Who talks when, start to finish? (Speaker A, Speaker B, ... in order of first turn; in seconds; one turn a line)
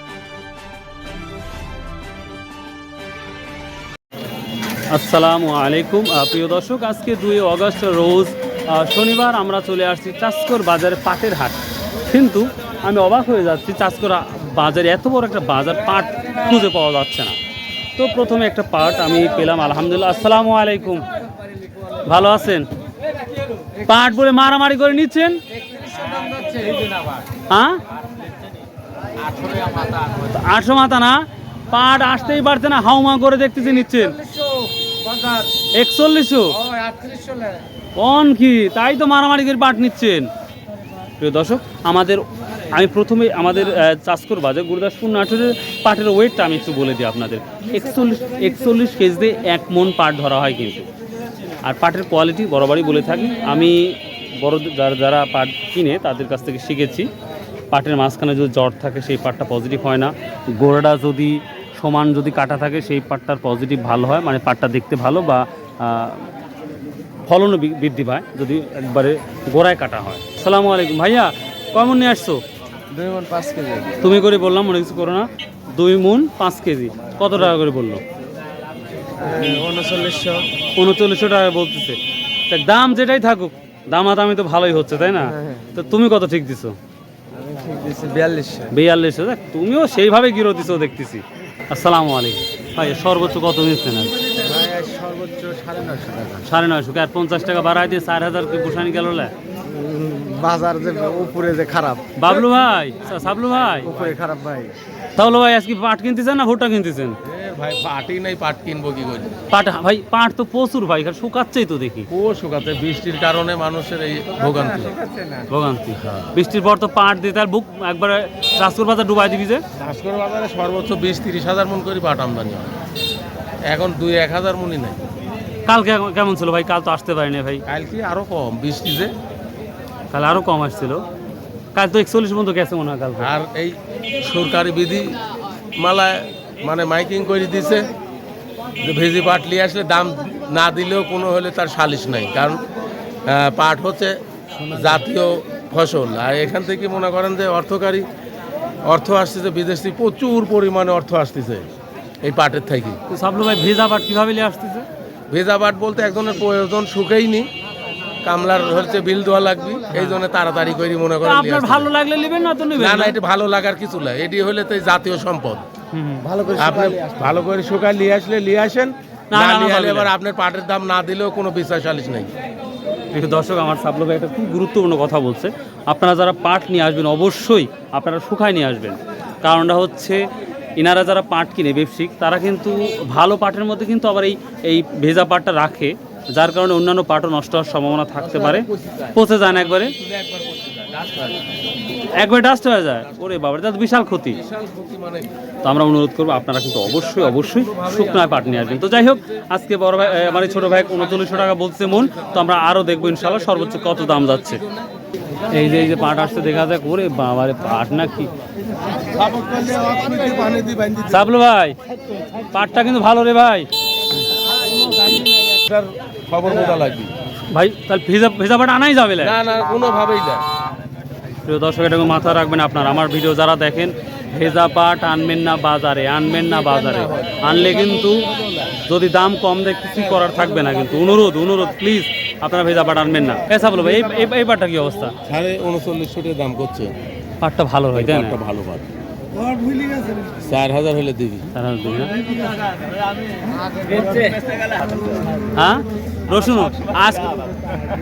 Speaker A: 4.9-17.4
Speaker A: 18.0-21.1
Speaker A: 22.1-22.7
Speaker A: 23.8-25.4
Speaker B: 25.9-27.1
Speaker A: 27.5-27.8
Speaker B: 29.3-30.1
Speaker A: 30.2-31.2
Speaker A: 31.7-34.2
Speaker A: 35.7-36.6
Speaker B: 36.7-37.5
Speaker A: 38.0-40.3
Speaker A: 41.2-50.9
Speaker A: 51.6-57.1
Speaker A: 57.7-66.2
Speaker A: 67.3-72.4
Speaker B: 72.9-74.0
Speaker A: 74.0-78.0
Speaker B: 79.2-80.5
Speaker A: 80.8-86.8
Speaker B: 87.4-88.7
Speaker A: 88.7-94.1
Speaker B: 94.3-96.4
Speaker A: 96.4-99.3
Speaker B: 99.7-102.1
Speaker A: 102.2-104.0
Speaker B: 103.9-104.7
Speaker A: 105.2-107.2
Speaker C: 107.2-109.3
Speaker A: 109.5-112.1
Speaker C: 112.1-115.0
Speaker A: 115.5-119.6
Speaker C: 119.8-122.8
Speaker C: 123.7-125.0
Speaker A: 125.7-127.6
Speaker C: 127.7-129.1
Speaker A: 130.1-131.0
Speaker A: 131.7-133.3
Speaker C: 133.2-135.2
Speaker C: 135.8-137.9
Speaker C: 138.8-142.6
Speaker C: 143.3-148.1
Speaker C: 148.9-151.7
Speaker C: 152.2-153.0
Speaker A: 153.1-154.9
Speaker C: 155.3-157.5
Speaker C: 158.2-161.9
Speaker A: 159.9-160.2
Speaker A: 161.2-163.2
Speaker C: 162.8-165.6
Speaker A: 165.9-166.3
Speaker B: 166.3-167.2
Speaker C: 166.6-172.3
Speaker A: 169.3-170.1
Speaker A: 173.1-180.2
Speaker A: 180.8-190.0
Speaker C: 188.5-189.1
Speaker C: 190.0-191.4
Speaker A: 192.1-194.4
Speaker C: 194.4-195.3
Speaker A: 195.6-204.6
Speaker C: 203.4-204.7
Speaker A: 205.5-208.3
Speaker C: 209.0-211.3
Speaker A: 211.1-211.8
Speaker A: 212.5-213.7
Speaker C: 214.9-217.1
Speaker A: 217.5-219.3
Speaker C: 219.2-220.4
Speaker A: 221.4-228.3
Speaker C: 226.6-227.4
Speaker A: 228.8-235.2
Speaker C: 235.3-236.9
Speaker A: 237.4-238.4
Speaker C: 237.9-238.9
Speaker B: 239.7-240.1
Speaker C: 240.4-241.5
Speaker A: 241.5-242.2
Speaker B: 243.6-244.3
Speaker C: 244.0-244.4
Speaker A: 245.6-247.5